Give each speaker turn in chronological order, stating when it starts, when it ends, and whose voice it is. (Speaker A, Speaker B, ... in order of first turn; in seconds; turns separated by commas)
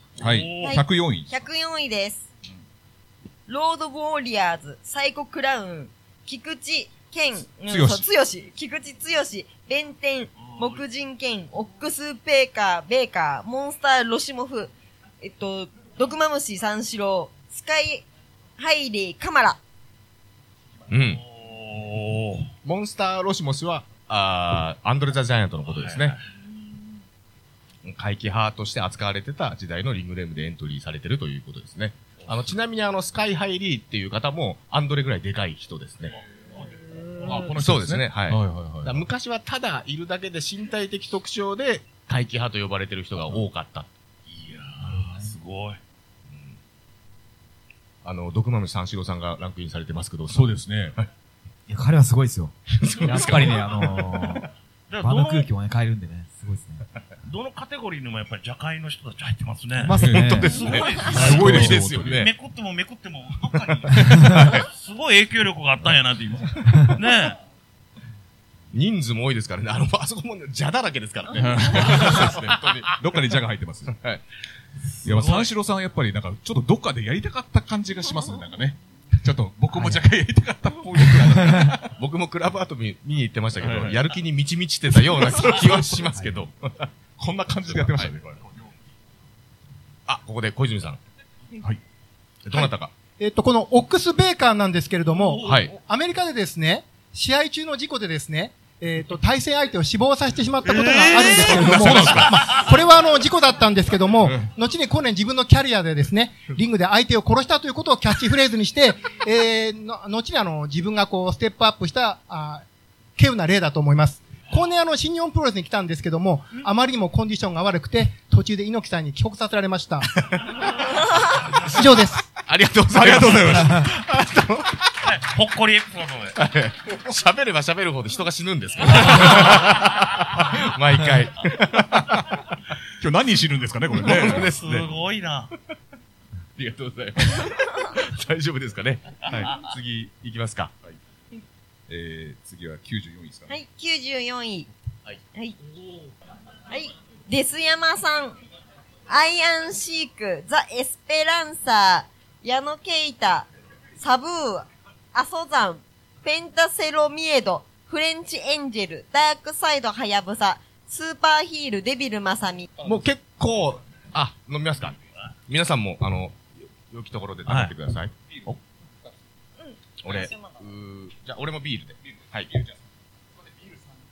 Speaker A: 0.2-0.8, Speaker B: 0.2-1.4, Speaker C: 0.6-2.3, Speaker C: 3.5-18.1, Speaker B: 7.7-8.1, Speaker A: 10.4-10.8, Speaker C: 18.6-19.6, Speaker D: 20.9-21.2, Speaker A: 20.9-22.5, Speaker D: 22.6-26.2, Speaker A: 25.7-26.2, Speaker D: 27.8-36.1, Speaker B: 37.3-39.1, Speaker D: 37.5-43.9, Speaker A: 44.3-45.8, Speaker E: 44.9-45.3, Speaker D: 46.3-46.6, Speaker D: 48.0-51.1, Speaker B: 50.3-51.0, Speaker E: 51.7-54.5, Speaker D: 52.8-53.7, Speaker A: 54.9-55.5, Speaker E: 55.0-56.9, Speaker A: 57.2-67.4, Speaker E: 59.8-60.5, Speaker B: 60.0-62.3, Speaker D: 60.0-62.3, Speaker D: 63.9-64.7, Speaker D: 68.7-73.0, Speaker B: 71.3-74.0, Speaker D: 73.9-74.2, Speaker A: 75.0-75.5, Speaker B: 75.0-81.9, Speaker E: 79.7-80.0, Speaker D: 81.9-86.9, Speaker B: 83.6-84.0, Speaker B: 84.9-86.0, Speaker B: 87.2-88.7, Speaker D: 87.7-88.1, Speaker D: 90.1-91.0, Speaker D: 92.5-92.9, Speaker F: 92.5-112.7, Speaker A: 95.3-95.5, Speaker D: 95.4-95.7, Speaker A: 100.7-101.6, Speaker D: 101.5-102.5, Speaker B: 101.7-102.3, Speaker F: 113.2-120.1, Speaker D: 120.3-120.6, Speaker F: 121.7-122.3, Speaker D: 122.4-124.9, Speaker B: 122.9-124.0, Speaker A: 125.0-126.4, Speaker D: 126.4-132.3, Speaker A: 129.1-129.4, Speaker B: 131.9-132.4, Speaker B: 133.0-134.9, Speaker D: 133.9-134.9, Speaker A: 134.3-135.5, Speaker D: 136.6-141.0, Speaker B: 141.9-143.5, Speaker C: 143.5-144.7, Speaker C: 146.7-148.4, Speaker C: 149.1-162.7, Speaker D: 162.8-165.0, Speaker D: 165.5-168.5, Speaker A: 167.5-167.7, Speaker C: 169.6-170.6, Speaker D: 170.0-172.5, Speaker B: 172.1-172.8